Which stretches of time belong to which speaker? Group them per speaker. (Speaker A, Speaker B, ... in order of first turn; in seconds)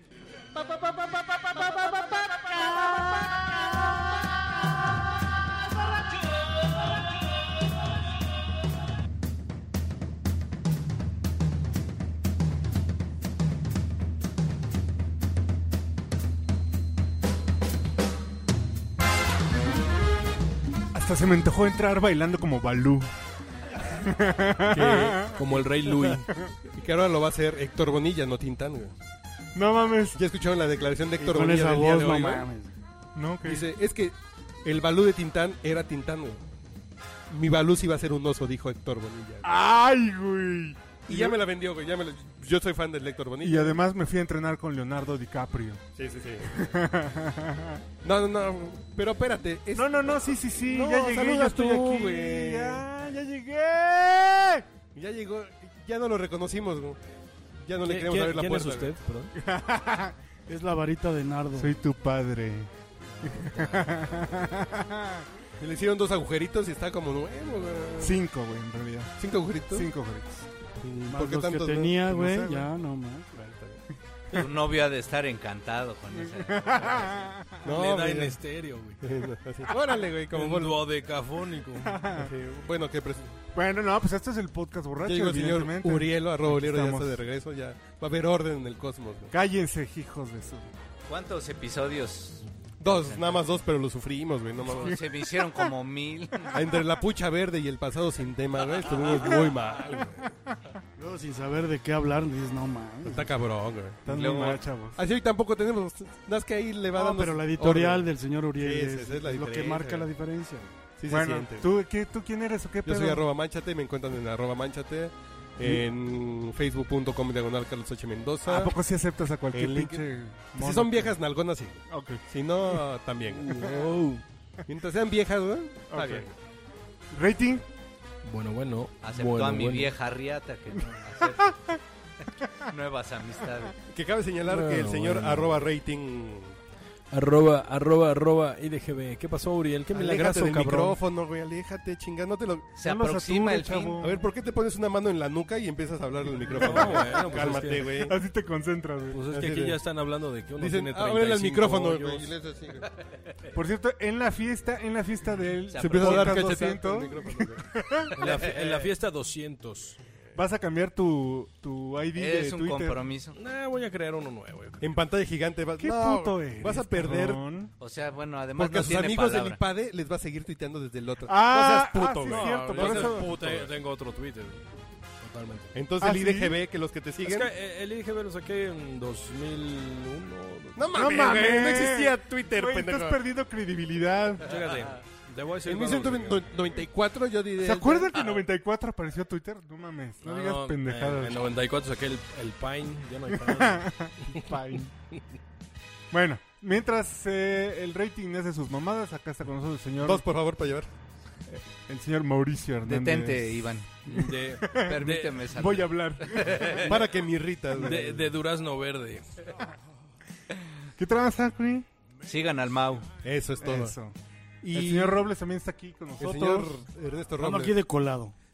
Speaker A: 20.9-23.1, 23.8-26.4, 29.5-30.2, 33.1-33.6, 39.4-41.4, 43.4-45.8, 46.4-47.8, 49.7-54.6, 59.4-60.1, 61.5-62.7, 63.2-65.2, 68.0-69.1, 69.7-70.5, 72.2-72.7, 76.1-77.7, 81.8-82.3, 83.5-87.2, 89.3-90.7, 94.6-95.7, 98.9-99.5, 104.0-105.0, 111.1-113.2, 118.4-121.2, 121.9-122.2, 125.9-126.2, 127.1-127.6, 142.8-144.3, 146.6-149.2, 153.5-158.2, 160.3-163.0, 165.8-167.7, 171.2-173.3, 176.0-176.6, 180.9-184.4, 187.6-191.5, 193.3-194.9, 196.1-200.2, 201.5-207.0, 207.9-208.1, 211.0-211.9, 213.6-214.2, 214.7-216.7
Speaker B: 24.7-25.4, 26.7-28.9, 30.1-32.5, 33.4-36.4, 37.3-39.5, 41.1-43.8, 46.0-46.5, 48.0-52.8, 54.9-57.0, 57.6-58.9, 65.6-68.2, 69.2-69.9, 70.8-72.2, 73.3-73.8, 77.6-78.4, 79.0-80.8, 82.2-83.4, 85.0-89.3, 92.8-95.0, 96.5-100.3, 103.0-110.1, 111.0-111.7, 112.8-118.7, 119.5-123.7, 124.7-126.3, 133.9-136.6, 139.9-142.7, 144.0-148.2, 149.3-149.8, 150.6-152.9, 155.8-157.5, 164.8-167.4, 168.6-173.7, 175.7-177.5, 180.8-183.2, 185.6-188.2, 200.0-200.9, 206.7-208.3, 213.2-213.9, 214.6-215.3, 216.2-217.8
Speaker C: 25.3-26.3, 57.9-59.3, 63.2-63.8, 77.6-79.0, 80.3-82.1, 123.3-124.2, 128.2-129.9, 134.4-135.6, 137.1-141.0, 146.6-148.0, 149.1-152.3, 156.1-157.4, 158.2-160.0, 163.3-164.9, 172.2-174.7, 175.2-175.8, 177.2-180.9, 184.4-186.5, 190.2-193.9, 204.1-205.4, 207.7-209.3
Speaker D: 31.2-32.7, 60.5-61.8, 71.1-73.2, 101.0-103.3, 106.9-110.7, 217.4-218.3
Speaker E: 74.3-77.1, 91.1-93.4, 94.6-96.5, 104.1-104.6, 129.0-131.8, 132.6-133.8, 142.8-144.0, 155.7-156.2, 158.2-158.8, 162.2-163.4, 167.8-169.6, 202.8-204.1, 204.7-206.9, 212.2-213.1